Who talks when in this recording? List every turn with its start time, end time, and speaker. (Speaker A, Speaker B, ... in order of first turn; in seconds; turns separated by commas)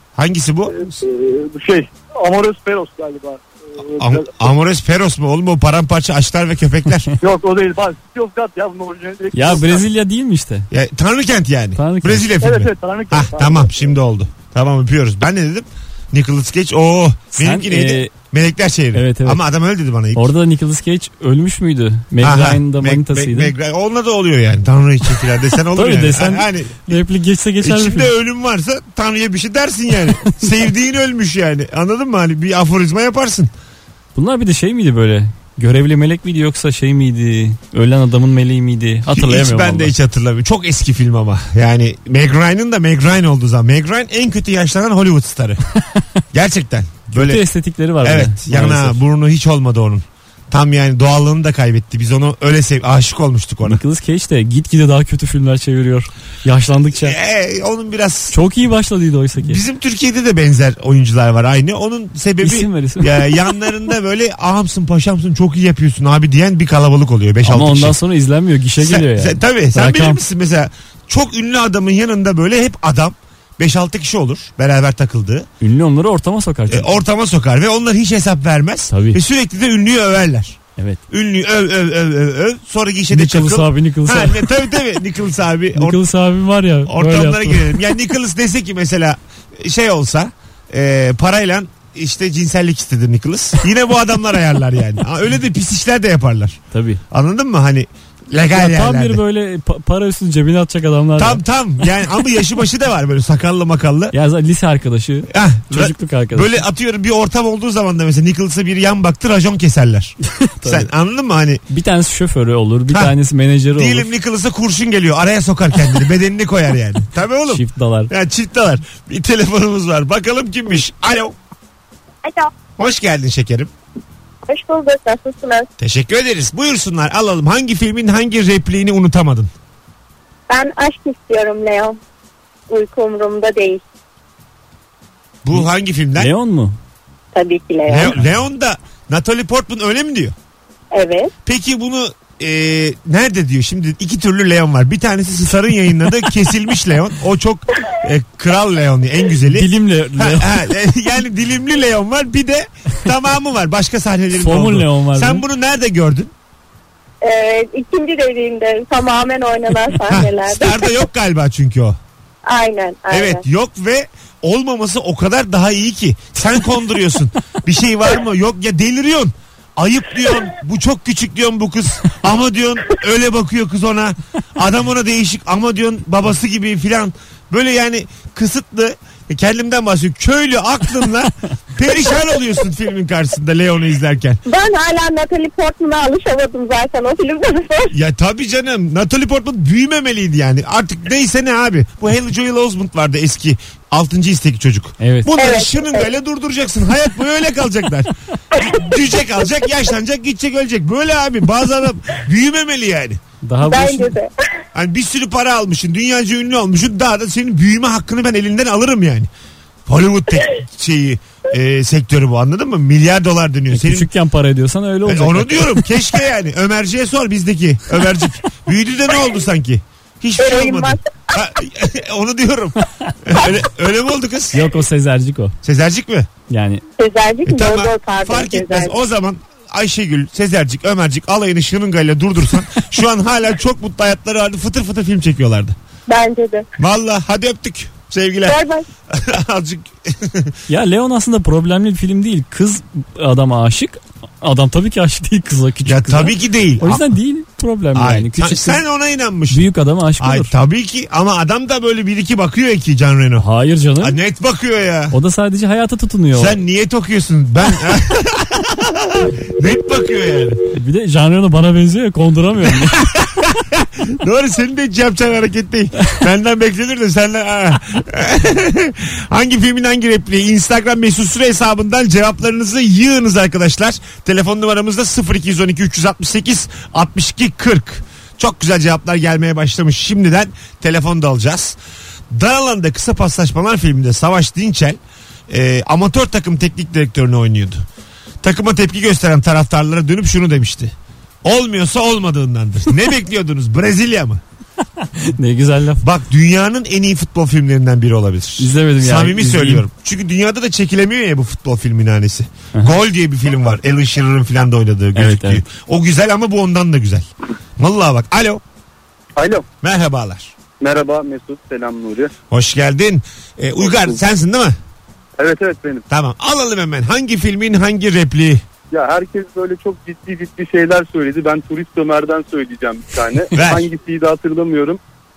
Speaker A: 0.1-0.9, Speaker B: 0.7-4.5, Speaker A: 4.0-7.1, Speaker B: 7.2-9.8, Speaker C: 9.3-10.7, Speaker A: 10.7-20.3, Speaker C: 11.8-12.4, Speaker B: 12.4-13.9, Speaker C: 17.3-18.1, Speaker C: 18.9-19.4, Speaker C: 20.1-23.5, Speaker A: 22.2-27.0, Speaker C: 25.7-28.1, Speaker A: 27.6-33.5, Speaker C: 34.1-39.9, Speaker A: 39.1-45.6, Speaker A: 46.3-47.4, Speaker C: 47.1-49.0, Speaker A: 48.0-53.8, Speaker C: 53.6-57.1, Speaker A: 56.9-58.4, Speaker C: 58.3-59.6, Speaker A: 59.4-68.0, Speaker C: 62.4-63.4, Speaker C: 67.5-70.2, Speaker A: 68.8-75.5, Speaker C: 75.6-77.0, Speaker A: 76.7-80.6, Speaker C: 78.9-79.2, Speaker A: 81.1-86.0, Speaker C: 83.1-84.7, Speaker C: 85.8-87.8, Speaker A: 86.9-96.6, Speaker C: 96.7-97.0, Speaker A: 97.1-99.2, Speaker C: 98.5-101.4, Speaker A: 101.2-104.1, Speaker C: 104.1-106.6, Speaker A: 105.3-111.6, Speaker C: 110.4-110.9, Speaker C: 111.7-114.1, Speaker A: 112.9-113.1, Speaker A: 113.8-121.4, Speaker C: 117.5-118.1, Speaker D: 122.2-122.5, Speaker A: 122.8-123.7, Speaker D: 124.5-125.7, Speaker A: 125.8-129.5, Speaker D: 130.5-132.0, Speaker D: 132.7-133.8, Speaker A: 135.4-136.3, Speaker C: 135.5-136.8, Speaker D: 137.3-138.2, Speaker A: 137.9-140.3, Speaker D: 140.9-141.3, Speaker A: 141.4-156.3, Speaker C: 149.5-150.5, Speaker C: 154.3-155.4, Speaker D: 157.2-160.9, Speaker A: 160.1-162.0, Speaker D: 162.4-163.4, Speaker A: 163.1-184.4, Speaker D: 184.5-187.9, Speaker A: 187.9-203.2, Speaker C: 195.0-195.3, Speaker D: 195.4-196.1, Speaker C: 203.4-204.2, Speaker D: 203.6-204.3, Speaker A: 204.7-209.3, Speaker A: 209.9-214.1, Speaker C: 213.7-215.9, Speaker A: 215.1-224.7, Speaker D: 220.4-221.0, Speaker C: 224.5-225.6, Speaker A: 225.6-226.3, Speaker C: 226.5-226.8, Speaker D: 227.0-228.9, Speaker A: 227.5-235.8, Speaker D: 236.1-236.7, Speaker A: 236.8-238.6, Speaker D: 238.5-238.8, Speaker A: 239.1-240.5, Speaker C: 240.7-248.8, Speaker A: 245.8-247.1, Speaker A: 247.9-253.5, Speaker C: 249.5-250.5, Speaker C: 253.4-254.2, Speaker A: 254.0-255.2, Speaker C: 255.1-256.6, Speaker A: 256.3-260.6, Speaker C: 260.7-263.0, Speaker A: 262.8-281.8, Speaker A: 282.3-287.9, Speaker A: 288.4-294.4, Speaker C: 295.1-296.0, Speaker A: 296.0-308.6, Speaker C: 298.6-299.9, Speaker C: 305.1-305.6, Speaker B: 309.4-309.6, Speaker A: 309.8-310.5, Speaker B: 310.8-312.3, Speaker A: 312.5-314.8, Speaker B: 313.8-314.2, Speaker B: 315.4-316.0, Speaker A: 316.1-318.6, Speaker B: 318.9-325.0, Speaker A: 323.5-323.9